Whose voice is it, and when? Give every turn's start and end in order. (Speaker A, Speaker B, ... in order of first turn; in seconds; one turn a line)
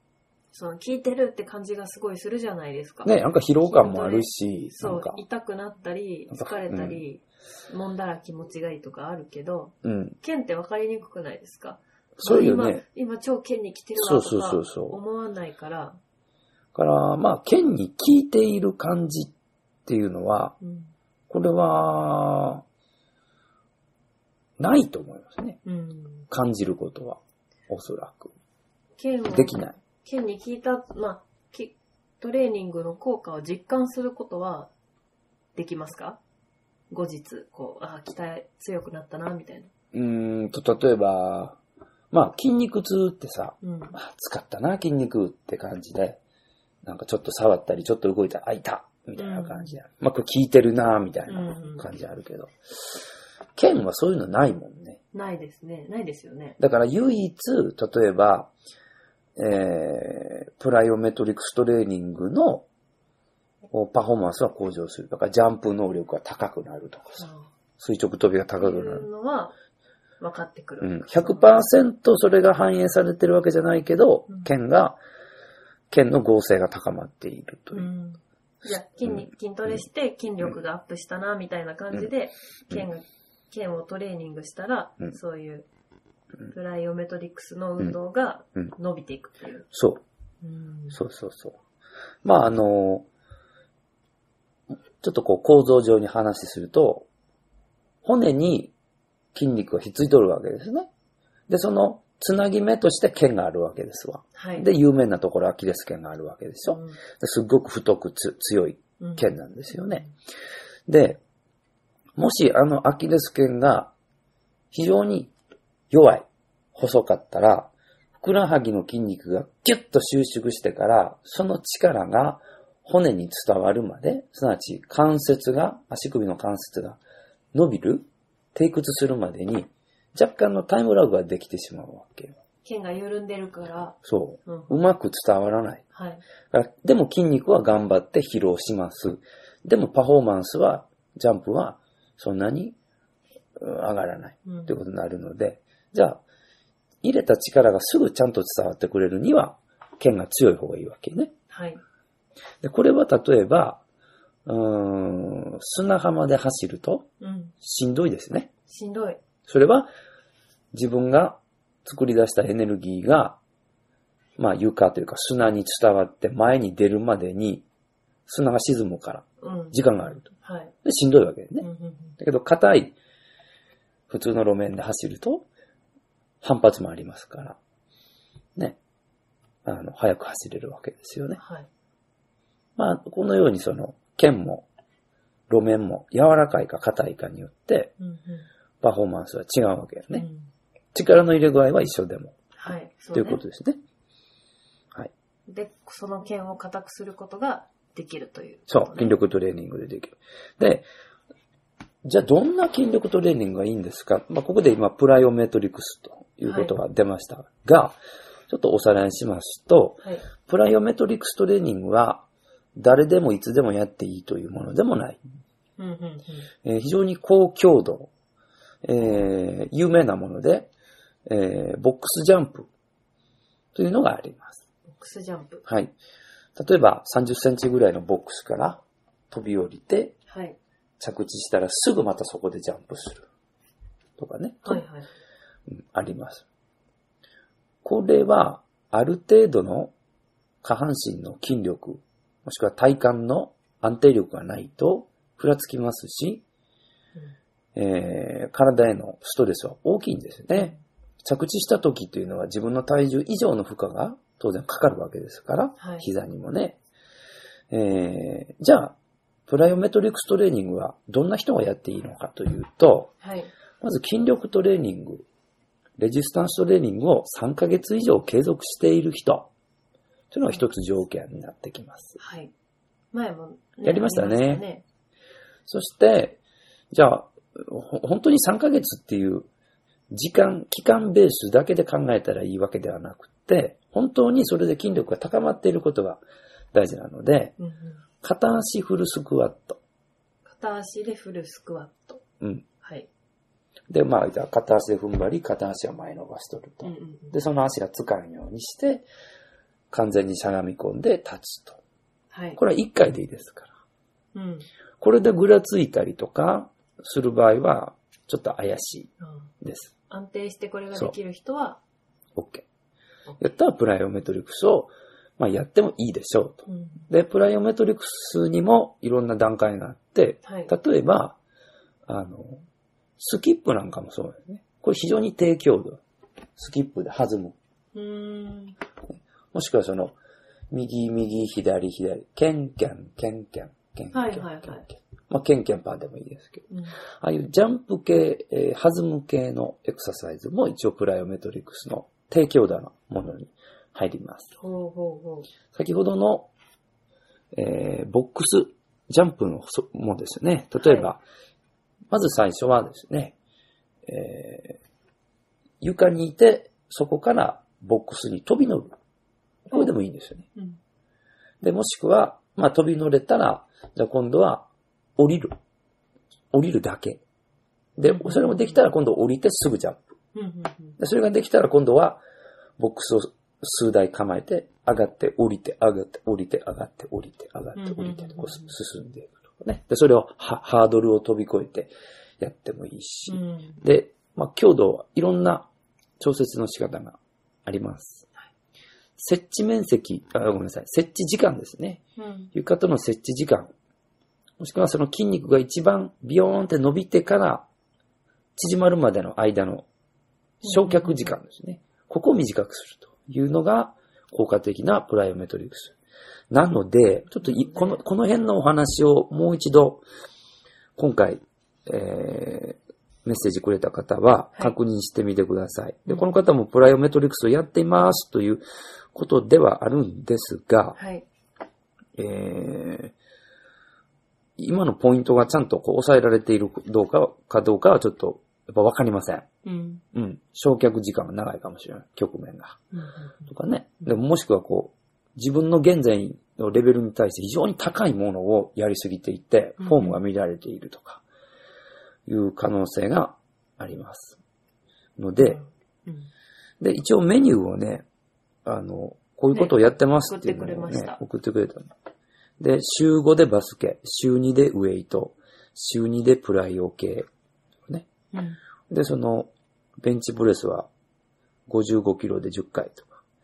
Speaker A: 0.5-16.0
Speaker B: 3.0-5.2
Speaker B: 6.3-7.0
Speaker B: 9.8-10.2
Speaker B: 12.2-12.8
Speaker B: 14.0-15.0
Speaker B: 16.7-19.3
Speaker B: 19.9-20.6
Speaker A: 20.6-20.9
Speaker B: 21.3-22.6
Speaker B: 24.6-25.6
Speaker A: 25.6-26.3
Speaker B: 26.3-28.3
Speaker A: 29.0-34.7
Speaker B: 29.3-29.8
Speaker A: 35.5-36.2
Speaker A: 36.9-39.7
Speaker B: 39.9-41.6
Speaker B: 42.1-46.2
Speaker A: 43.6-44.0
Speaker B: 46.8-53.0
Speaker A: 49.2-49.8
Speaker A: 51.3-51.9
Speaker B: 53.6-55.0
Speaker A: 55.1-56.6
Speaker B: 56.6-58.5
Speaker B: 59.4-62.7
Speaker B: 63.7-67.2
Speaker A: 67.2-67.5
Speaker B: 67.8-69.1
Speaker A: 68.6-69.5
Speaker A: 70.2-71.7
Speaker B: 70.8-75.0
Speaker B: 75.9-77.9
Speaker A: 77.7-85.7
Speaker B: 79.0-79.8
Speaker A: 86.5-89.7
Speaker B: 89.7-90.0
Speaker A: 90.4-91.0
Speaker B: 90.9-91.6
Speaker B: 92.2-93.1
Speaker B: 95.0-97.1
Speaker B: 98.0-98.7
Speaker B: 99.3-100.9
Speaker B: 101.5-110.0
Speaker A: 104.3-104.7
Speaker A: 106.7-107.0
Speaker A: 109.0-109.3
Speaker B: 110.9-111.2
Speaker B: 112.2-113.9
Speaker B: 114.7-115.3
Speaker B: 115.9-127.0
Speaker B: 127.5-132.4
Speaker A: 132.7-134.7
Speaker B: 134.0-135.8
Speaker A: 135.9-136.2
Speaker B: 136.5-142.8
Speaker B: 143.6-146.2
Speaker A: 144.4-144.8
Speaker B: 147.0-151.3
Speaker A: 151.5-151.8
Speaker B: 152.6-153.8
Speaker B: 154.5-157.1
Speaker A: 157.2-157.5
Speaker B: 157.6-158.5
Speaker A: 158.7-159.2
Speaker B: 159.5-159.9
Speaker B: 160.7-163.4
Speaker B: 164.4-167.7
Speaker B: 168.3-170.3
Speaker A: 169.4-170.7
Speaker B: 170.8-171.7
Speaker A: 171.6-172.1
Speaker B: 172.2-173.0
Speaker B: 174.1-175.5
Speaker B: 176.4-177.6
Speaker B: 179.7-181.4
Speaker A: 181.4-181.7
Speaker B: 182.8-184.7
Speaker B: 185.5-187.9
Speaker A: 188.0-188.4
Speaker B: 188.8-190.3
Speaker A: 190.2-190.5
Speaker B: 190.9-192.3
Speaker A: 192.6-193.4
Speaker B: 193.1-193.8
Speaker A: 195.5-199.1
Speaker B: 198.7-200.9
Speaker B: 202.0-208.0
Speaker A: 206.4-206.8
Speaker B: 208.5-212.3
Speaker B: 212.8-215.2
Speaker A: 215.8-216.5
Speaker B: 216.6-218.1
Speaker B: 218.8-220.7
Speaker B: 221.3-222.7
Speaker B: 223.8-224.6
Speaker A: 224.9-225.6
Speaker B: 225.7-225.9
Speaker B: 226.6-230.2
Speaker A: 230.3-230.6
Speaker B: 231.0-233.3
Speaker B: 234.2-234.8
Speaker A: 234.7-235.1
Speaker B: 235.7-236.4
Speaker B: 237.8-239.9
Speaker B: 240.6-246.4
Speaker B: 247.8-256.8
Speaker A: 255.8-256.1
Speaker B: 257.7-258.9
Speaker B: 259.5-263.1
Speaker A: 263.2-263.5
Speaker B: 263.8-265.3
Speaker B: 266.0-269.5
Speaker B: 270.3-272.2
Speaker A: 272.2-272.5
Speaker A: 273.1-274.8
Speaker B: 273.8-274.6
Speaker B: 275.7-276.4
Speaker B: 276.9-279.5
Speaker B: 280.1-286.2
Speaker B: 286.7-287.6
Speaker A: 287.6-288.0
Speaker B: 288.2-289.8
Speaker A: 290.5-292.2
Speaker B: 292.4-292.7
Speaker A: 292.8-293.1
Speaker B: 293.9-299.1
Speaker A: 296.8-297.4
Speaker B: 299.9-301.8
Speaker A: 302.3-302.6
Speaker B: 302.6-303.7
Speaker A: 304.3-304.7
Speaker B: 305.0-309.1
Speaker A: 309.2-309.5
Speaker B: 309.6-309.9
Speaker A: 310.1-311.8
Speaker B: 312.4-312.7
Speaker B: 313.4-321.4
Speaker A: 316.7-317.1
Speaker A: 320.4-320.7
Speaker B: 322.1-322.6
Speaker B: 323.2-326.0
Speaker B: 326.6-327.6
Speaker A: 327.9-328.8
Speaker B: 329.5-330.2
Speaker B: 330.7-336.7
Speaker A: 334.1-334.9
Speaker A: 336.7-337.0
Speaker B: 337.2-344.5
Speaker A: 344.6-345.5
Speaker B: 345.7-346.5
Speaker B: 347.5-351.2
Speaker A: 350.8-351.1
Speaker B: 352.1-353.4
Speaker B: 354.1-354.8
Speaker B: 355.8-358.9
Speaker B: 359.7-360.5
Speaker B: 361.6-365.6
Speaker B: 366.5-367.2
Speaker B: 368.0-370.1
Speaker A: 368.1-368.8
Speaker A: 370.4-371.0
Speaker B: 371.0-372.2
Speaker B: 372.8-385.7
Speaker A: 377.8-378.8
Speaker A: 383.3-383.8
Speaker B: 386.2-388.3
Speaker B: 389.2-392.0
Speaker A: 392.2-392.5
Speaker B: 392.5-393.7
Speaker B: 394.6-397.7
Speaker B: 398.6-399.9
Speaker A: 400.6-401.3
Speaker B: 400.6-406.0
Speaker B: 406.5-410.0
Speaker A: 407.4-408.0
Speaker B: 411.0-418.6
Speaker B: 419.1-421.0
Speaker A: 421.0-421.2
Speaker B: 422.2-423.1
Speaker B: 424.6-429.5
Speaker A: 429.6-430.0
Speaker B: 430.1-432.8
Speaker A: 432.9-433.5
Speaker B: 433.5-441.2
Speaker A: 439.8-440.2
Speaker B: 442.3-444.4
Speaker B: 445.2-445.6
Speaker A: 445.4-446.3
Speaker B: 446.8-448.1
Speaker B: 448.6-451.9
Speaker A: 449.5-451.2
Speaker B: 452.6-457.3
Speaker A: 458.3-458.6
Speaker B: 458.9-459.5
Speaker B: 460.0-460.9
Speaker B: 461.7-463.1